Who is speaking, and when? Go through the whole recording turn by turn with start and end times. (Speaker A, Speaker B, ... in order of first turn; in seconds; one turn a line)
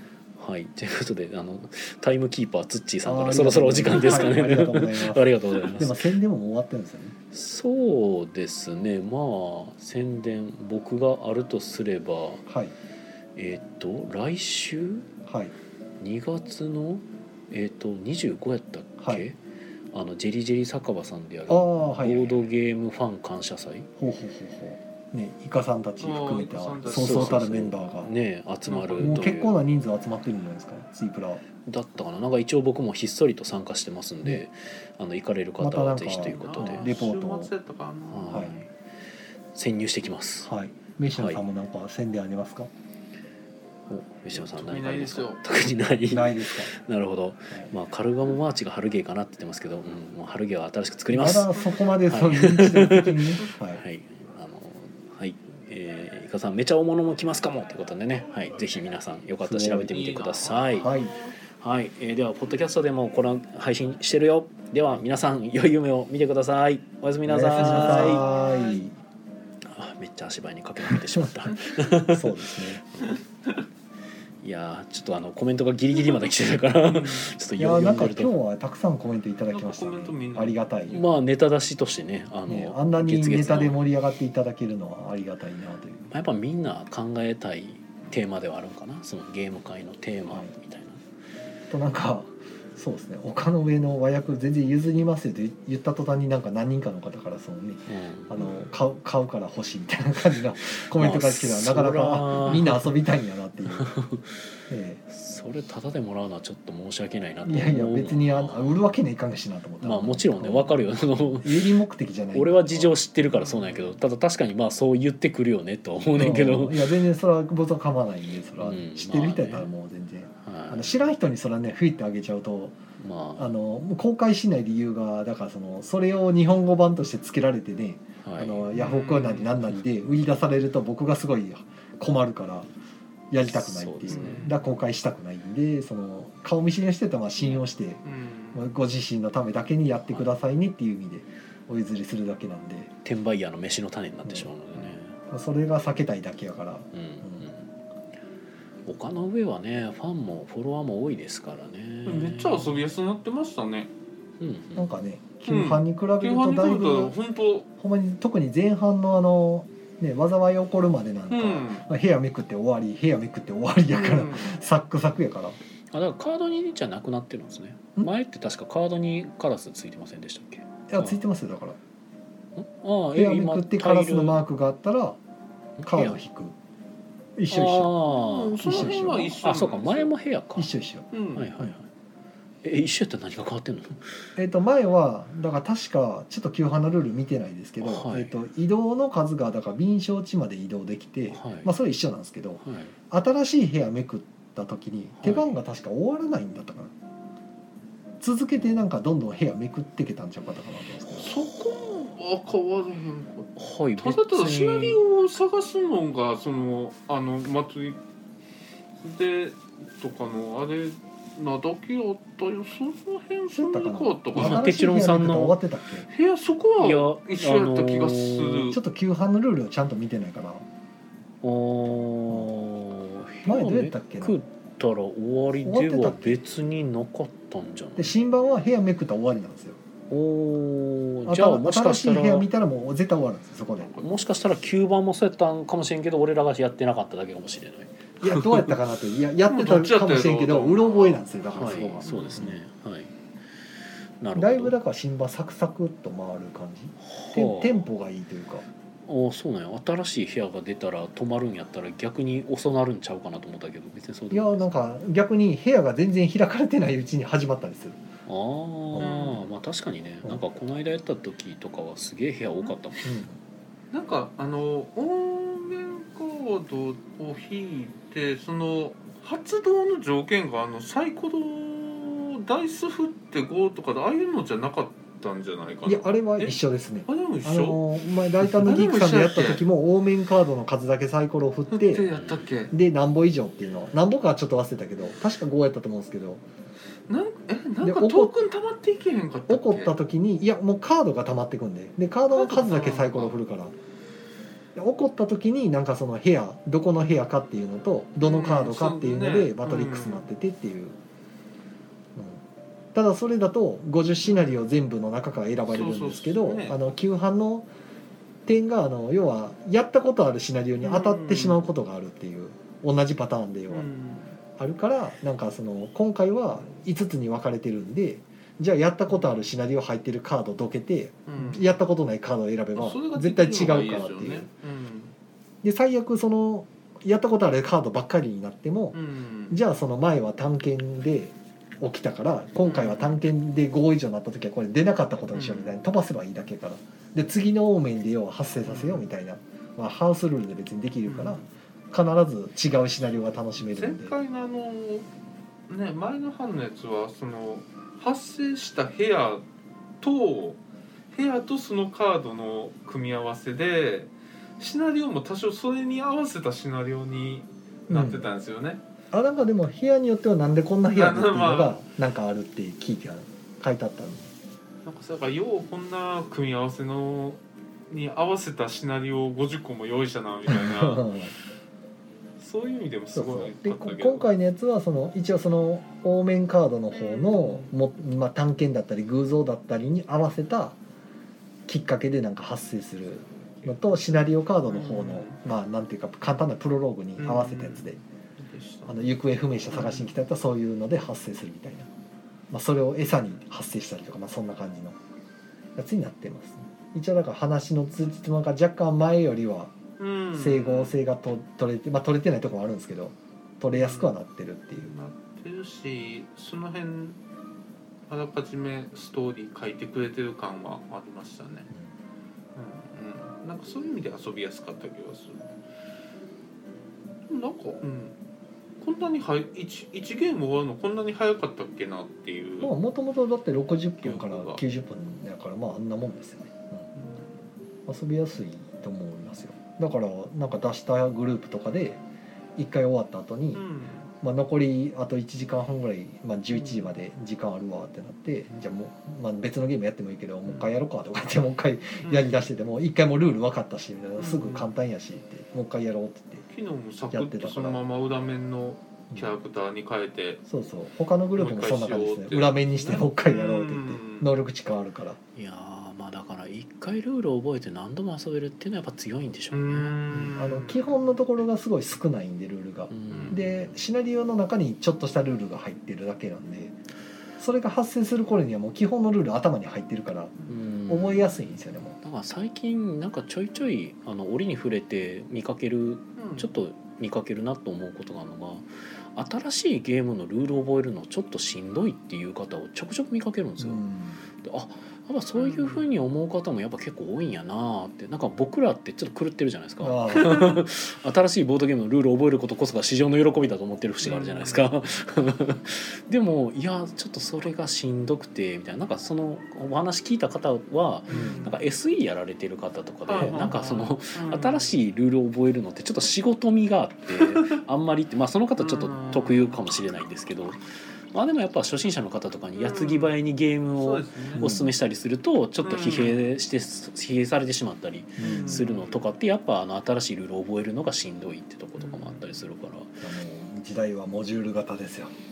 Speaker A: 0.4-6.1
Speaker B: 3.0-7.2
Speaker A: 7.3-12.4
Speaker B: 12.5-12.7
Speaker A: 13.4-15.1
Speaker B: 15.3-15.5
Speaker A: 16.0-19.4
Speaker B: 19.0-19.3
Speaker A: 19.9-23.9
Speaker B: 21.5-22.5
Speaker B: 24.0-28.1
Speaker C: 26.0-27.4
Speaker A: 26.9-29.6
Speaker C: 28.7-29.3
Speaker B: 29.0-31.4
Speaker A: 31.7-36.9
Speaker B: 35.6-37.5
Speaker C: 36.2-38.5
Speaker A: 38.1-38.7
Speaker A: 39.5-40.5
Speaker B: 40.5-42.7
Speaker A: 41.1-41.4
Speaker A: 43.9-60.9
Speaker C: 44.3-45.5
Speaker B: 46.1-46.7
Speaker B: 51.1-53.8
Speaker B: 59.4-60.0
Speaker C: 59.9-61.3
Speaker B: 60.7-61.2
Speaker A: 61.5-68.3
Speaker B: 67.2-69.0
Speaker C: 67.6-68.8
Speaker A: 69.6-72.4
Speaker B: 70.9-71.3
Speaker B: 71.8-72.8
Speaker A: 74.4-78.3
Speaker C: 76.8-77.3
Speaker B: 77.6-81.0
Speaker C: 79.5-80.6
Speaker A: 80.9-83.8
Speaker B: 82.5-86.1
Speaker A: 86.1-91.0
Speaker B: 91.7-103.9
Speaker A: 97.9-98.5
Speaker A: 100.9-102.9
Speaker A: 103.8-104.4
Speaker B: 104.7-105.0
Speaker A: 105.1-109.0
Speaker B: 107.5-110.8
Speaker A: 109.8-111.7
Speaker B: 111.4-113.0
Speaker A: 112.3-116.9
Speaker C: 113.3-113.9
Speaker B: 116.2-122.8
Speaker A: 118.6-119.7
Speaker A: 120.4-121.1
Speaker A: 123.0-123.5
Speaker B: 123.4-132.7
Speaker A: 128.2-128.7
Speaker C: 128.7-129.6
Speaker B: 133.3-138.0
Speaker A: 133.4-134.5
Speaker C: 134.1-134.6
Speaker C: 137.4-138.7
Speaker B: 138.5-142.9
Speaker A: 143.0-145.2
Speaker B: 144.2-147.5
Speaker A: 146.9-147.7
Speaker A: 148.9-152.8
Speaker C: 152.1-153.9
Speaker A: 154.4-154.9
Speaker B: 154.8-157.2
Speaker C: 155.4-157.7
Speaker B: 157.8-165.6
Speaker C: 161.3-161.9
Speaker C: 163.9-164.5
Speaker A: 165.9-171.2
Speaker B: 170.9-171.8
Speaker A: 172.6-174.4
Speaker B: 173.1-175.2
Speaker A: 175.8-176.2
Speaker B: 175.8-176.6
Speaker B: 177.4-177.9
Speaker A: 177.5-180.7
Speaker C: 178.0-180.1
Speaker B: 178.6-179.4
Speaker B: 180.6-181.1
Speaker C: 181.1-181.5
Speaker A: 181.3-181.8
Speaker A: 182.6-184.3
Speaker B: 184.4-196.9
Speaker A: 187.8-188.3
Speaker A: 191.3-191.7
Speaker A: 192.6-192.9
Speaker A: 195.2-195.6
Speaker B: 198.2-201.3
Speaker C: 201.2-208.0
Speaker A: 203.6-205.0
Speaker C: 209.0-214.7
Speaker B: 213.5-216.1
Speaker A: 214.3-215.6
Speaker C: 216.1-218.8
Speaker A: 216.8-218.7
Speaker B: 218.7-220.7
Speaker A: 221.4-228.1
Speaker B: 223.4-224.4
Speaker B: 225.6-226.4
Speaker B: 228.0-229.8
Speaker A: 230.1-232.5
Speaker B: 231.3-233.9
Speaker C: 233.8-234.1
Speaker A: 234.0-238.7
Speaker B: 238.2-242.6
Speaker C: 239.5-242.4
Speaker A: 241.5-243.1
Speaker A: 244.2-244.7
Speaker B: 244.3-248.7
Speaker A: 247.0-247.9
Speaker A: 249.1-254.7
Speaker B: 254.3-258.0
Speaker A: 258.3-263.1
Speaker C: 259.0-259.4
Speaker B: 263.0-263.4
Speaker C: 263.9-277.8
Speaker B: 275.9-282.1
Speaker C: 278.4-279.6
Speaker C: 281.7-282.7
Speaker A: 282.1-282.5
Speaker B: 282.7-286.4
Speaker C: 287.1-289.9
Speaker B: 287.8-288.4
Speaker B: 289.5-293.8
Speaker C: 292.3-293.4
Speaker B: 294.8-301.0
Speaker C: 298.2-300.2
Speaker B: 302.2-302.4
Speaker B: 302.9-307.7
Speaker C: 305.7-306.8
Speaker B: 308.5-313.9
Speaker C: 310.8-311.6
Speaker C: 313.7-314.4
Speaker B: 314.6-324.5
Speaker C: 321.3-321.7
Speaker C: 322.8-325.1
Speaker B: 325.6-329.0
Speaker C: 328.9-329.6
Speaker B: 329.5-344.1
Speaker C: 332.6-333.1
Speaker C: 335.3-335.8
Speaker C: 338.7-339.1
Speaker C: 341.1-341.4
Speaker C: 343.6-345.1
Speaker C: 345.7-349.4
Speaker C: 350.0-350.6
Speaker C: 351.1-358.8
Speaker B: 357.9-358.3
Speaker B: 359.1-364.3
Speaker C: 360.9-361.8
Speaker C: 364.9-371.1
Speaker B: 370.5-371.3
Speaker C: 372.4-374.3
Speaker B: 373.1-380.8
Speaker C: 376.9-377.7
Speaker B: 381.7-388.0
Speaker C: 384.7-385.4
Speaker C: 387.2-389.0
Speaker B: 388.9-391.9
Speaker C: 389.7-390.1
Speaker B: 392.5-395.0
Speaker B: 395.8-399.7
Speaker C: 400.0-401.0
Speaker B: 400.3-405.0
Speaker C: 403.7-404.1
Speaker C: 404.8-407.2
Speaker C: 408.1-411.7
Speaker C: 412.6-415.5
Speaker C: 417.3-418.2
Speaker C: 418.8-422.7
Speaker B: 422.6-426.9
Speaker C: 424.0-424.6
Speaker C: 427.0-427.4
Speaker B: 427.9-432.0
Speaker B: 432.6-433.6
Speaker C: 433.5-434.1
Speaker B: 434.2-446.5
Speaker C: 442.0-442.3
Speaker C: 444.2-444.7
Speaker C: 446.5-450.4
Speaker B: 447.1-447.8
Speaker B: 449.1-449.4
Speaker B: 450.5-455.2
Speaker C: 451.4-454.3
Speaker A: 455.4-460.0
Speaker C: 459.5-460.9
Speaker B: 460.1-466.8
Speaker A: 462.9-463.7
Speaker C: 463.1-463.4
Speaker B: 467.4-470.4
Speaker A: 470.5-471.4
Speaker B: 470.9-472.0
Speaker A: 472.0-483.8
Speaker C: 476.2-476.5
Speaker B: 483.6-484.2
Speaker A: 484.4-510.6
Speaker C: 485.4-485.9
Speaker B: 489.8-490.6
Speaker C: 494.0-494.6
Speaker C: 501.1-501.6
Speaker B: 501.1-501.5
Speaker C: 503.1-504.7
Speaker B: 503.2-503.5
Speaker C: 508.6-509.6
Speaker A: 511.1-523.0
Speaker C: 512.6-513.1
Speaker C: 513.8-514.5
Speaker B: 514.4-514.7
Speaker C: 515.6-516.3
Speaker B: 518.2-518.7
Speaker C: 518.2-519.1
Speaker C: 521.8-522.3
Speaker B: 523.0-525.1